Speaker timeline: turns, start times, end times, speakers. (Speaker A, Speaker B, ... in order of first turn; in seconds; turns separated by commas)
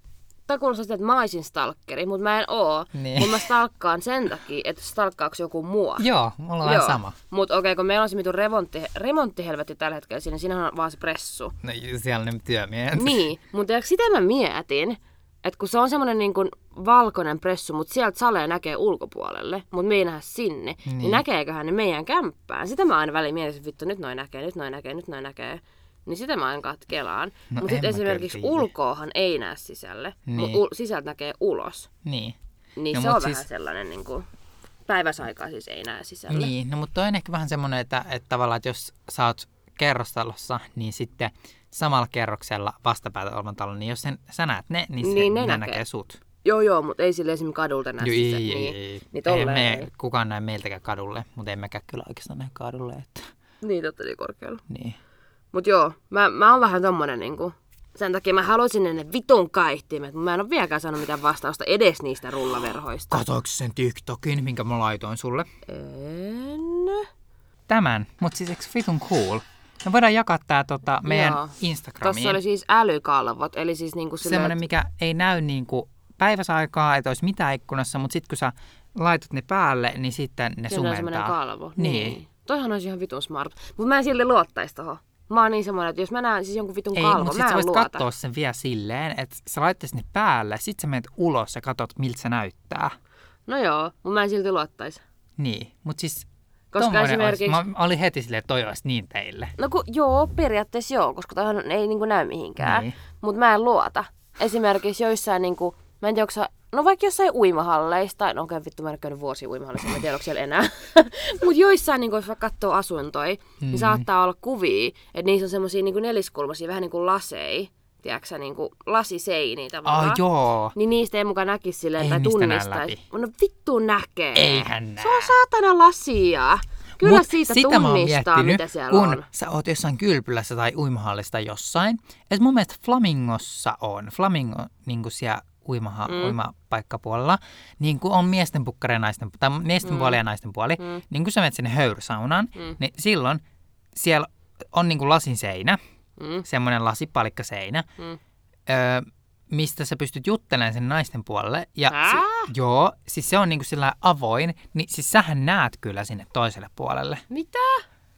Speaker A: 0.5-6.1, Speaker B: 3.0-3.5, Speaker B: 6.0-7.2, Speaker A: 6.6-11.6, Speaker B: 11.6-13.2, Speaker A: 12.9-31.9, Speaker B: 20.9-21.2, Speaker B: 27.5-28.7, Speaker B: 30.3-30.6, Speaker B: 32.0-32.4, Speaker A: 32.8-34.3, Speaker B: 32.9-33.4, Speaker A: 34.9-36.5, Speaker B: 36.3-46.2, Speaker A: 45.0-45.8, Speaker A: 46.4-49.9, Speaker B: 48.0-53.3, Speaker A: 53.6-54.6, Speaker B: 54.7-55.0, Speaker A: 55.5-63.2, Speaker B: 63.1-65.5, Speaker A: 65.7-67.1, Speaker B: 67.7-72.4, Speaker A: 71.1-74.6, Speaker B: 74.2-82.2, Speaker A: 80.7-88.1, Speaker B: 87.0-93.0, Speaker A: 93.5-95.0, Speaker B: 95.4-99.5, Speaker A: 96.7-97.6, Speaker A: 99.6-120.2, Speaker B: 102.6-102.9, Speaker B: 113.6-114.1, Speaker B: 119.8-120.8, Speaker A: 120.8-129.3, Speaker B: 122.0-123.0, Speaker B: 124.3-125.3, Speaker B: 127.0-143.4, Speaker A: 136.1-136.3, Speaker A: 139.8-140.2, Speaker B: 143.9-145.8, Speaker A: 146.2-146.4, Speaker B: 146.4-147.8, Speaker B: 148.7-157.2, Speaker A: 151.9-152.5, Speaker A: 157.3-157.8